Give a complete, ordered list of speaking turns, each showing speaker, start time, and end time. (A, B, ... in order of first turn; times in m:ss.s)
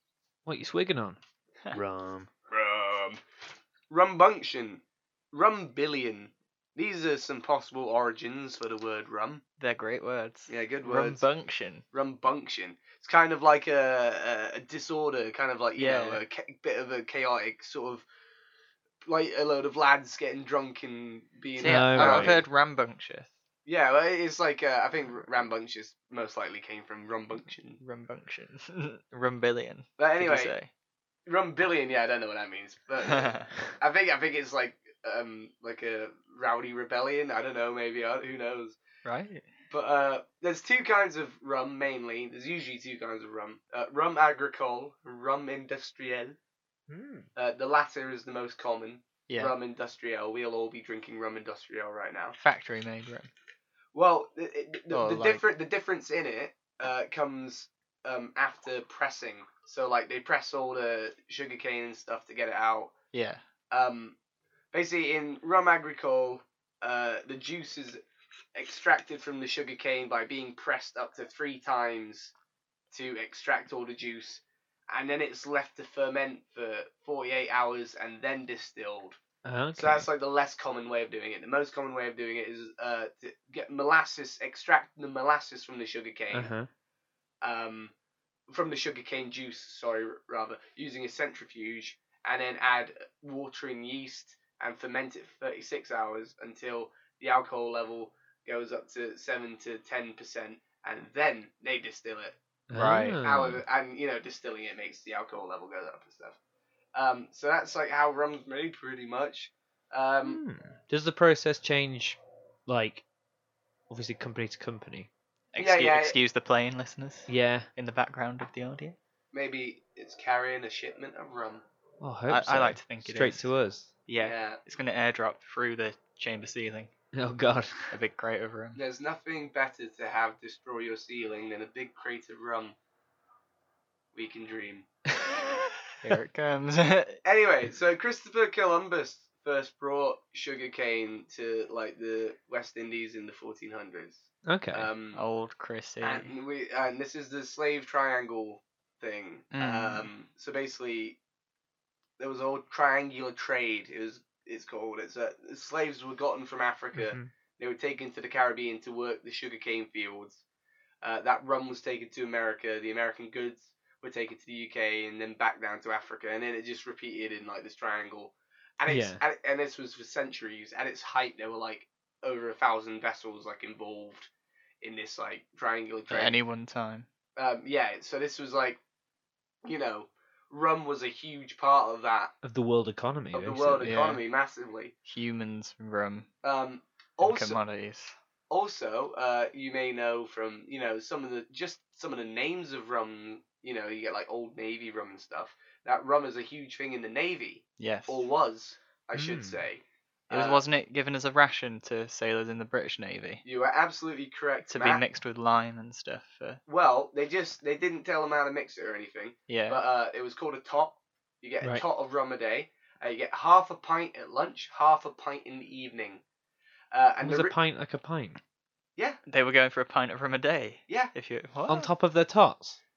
0:00.4-0:01.2 A
0:01.7-0:02.3 A
0:02.5-0:03.2 B
0:03.9-0:09.4 B
0:09.6-0:11.8 C
0:10.5-0:11.2 B
0:11.9-0:18.0 B
0:15.8-0:16.2 C
0:19.0-0:22.4 B
0:21.6-0:23.3 C
0:21.6-0:22.4 A
0:23.6-0:27.8 B
0:27.8-0:30.7 C
0:30.0-0:30.5 B
0:31.2-0:38.8 B
0:33.0-0:33.5 C
0:39.0-0:39.5 C
0:39.7-0:46.4 B
0:46.9-0:47.3 A
0:47.3-0:52.4 B
0:49.3-0:49.6 C
0:52.4-0:53.3 C
0:53.9-1:02.9 B
0:54.9-0:55.4 C
1:03.1-1:03.4 C
1:03.7-1:04.2 B
1:04.7-1:08.0 B
1:08.5-1:12.3 B
1:12.9-1:19.2 B
1:19.4-1:20.1 A
1:19.8-1:26.5 B
1:26.3-1:26.7 A
1:27.4-1:27.9 B
1:28.5-1:42.4 B
1:42.7-1:43.6 A
1:42.7-1:43.2 C
1:43.2-1:46.4 B
1:46.9-1:50.4 B
1:50.2-1:53.0 A
1:53.9-1:55.1 A
1:55.5-1:59.0 C
1:55.6-1:56.2 B
1:57.3-1:57.7 A
1:59.3-2:01.6 B
2:02.0-2:03.9 A
2:02.3-2:03.5 C
2:04.1-2:06.9 C
2:04.2-2:04.6 B
2:07.1-2:07.9 A
2:07.9-2:08.8 C
2:08.8-2:12.8 B
2:14.1-2:14.9 B
2:16.0-2:17.2 C
2:17.2-2:25.2 B
2:24.5-2:24.9 A
2:25.1-2:26.3 C
2:26.0-2:31.2 B
2:29.5-2:30.1 C
2:32.2-2:40.4 B
2:36.9-2:37.3 A
2:41.0-2:54.3 B
2:48.9-2:49.2 A
2:54.8-2:56.4 B
2:56.1-2:57.1 C
2:57.4-2:58.8 B
2:59.6-3:02.3 B
3:02.4-3:03.9 A
3:03.3-3:04.9 B
3:03.8-3:04.2 C
3:05.0-3:06.3 C
3:06.4-3:07.6 B
3:07.2-3:08.1 C
3:08.5-3:20.6 B
3:17.8-3:18.2 C
3:19.1-3:19.6 A
3:20.3-3:23.4 C
3:23.4-3:25.0 B
3:24.7-3:26.6 C
3:26.7-3:36.2 B
3:29.5-3:29.8 C
3:36.9-3:37.5 B
3:37.2-3:38.4 A
3:39.3-3:41.9 C
3:41.7-3:42.8 A